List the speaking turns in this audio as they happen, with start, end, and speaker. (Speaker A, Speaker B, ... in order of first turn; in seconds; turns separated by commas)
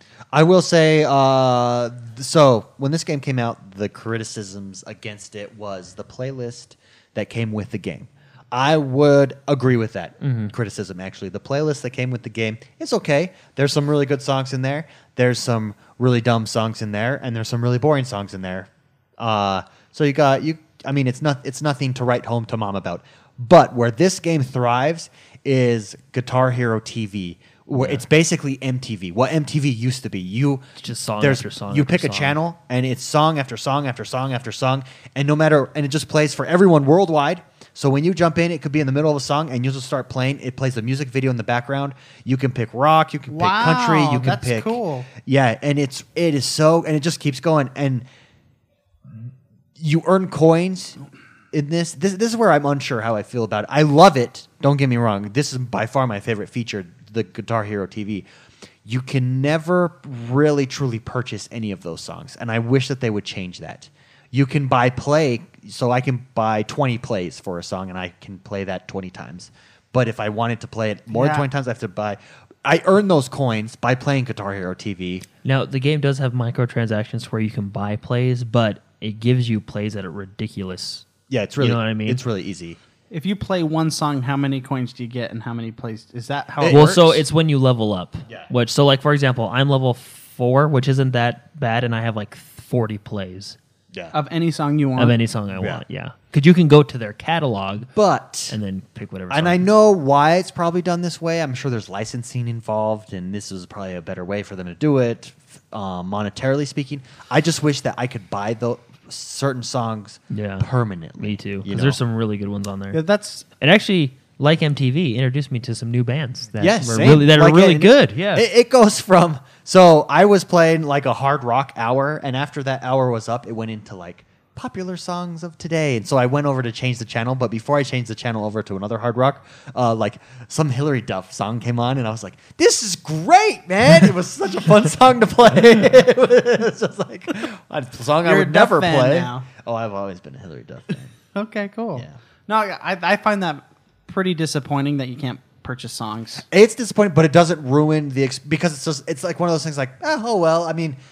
Speaker A: 0.3-48.0, Speaker B: 10.2-10.5, Speaker B: 27.8-28.0, Speaker B: 30.8-32.4, Speaker C: 43.3-45.1, Speaker A: 49.1-51.0, Speaker A: 51.5-58.2, Speaker A: 58.8-75.2, Speaker C: 71.1-71.5, Speaker B: 75.4-81.1, Speaker A: 81.3-82.8, Speaker B: 81.6-82.2, Speaker C: 83.1-87.2, Speaker A: 86.6-86.9, Speaker B: 86.7-93.6, Speaker C: 94.1-95.2, Speaker B: 95.0-97.9, Speaker A: 95.5-95.8, Speaker A: 97.9-98.5, Speaker B: 98.5-99.6, Speaker A: 99.3-112.0, Speaker B: 110.3-110.7, Speaker B: 111.2-113.0, Speaker C: 112.9-113.5, Speaker B: 113.6-118.5, Speaker A: 116.6-141.1, Speaker C: 138.2-139.5, Speaker C: 141.3-146.4, Speaker A: 146.5-151.0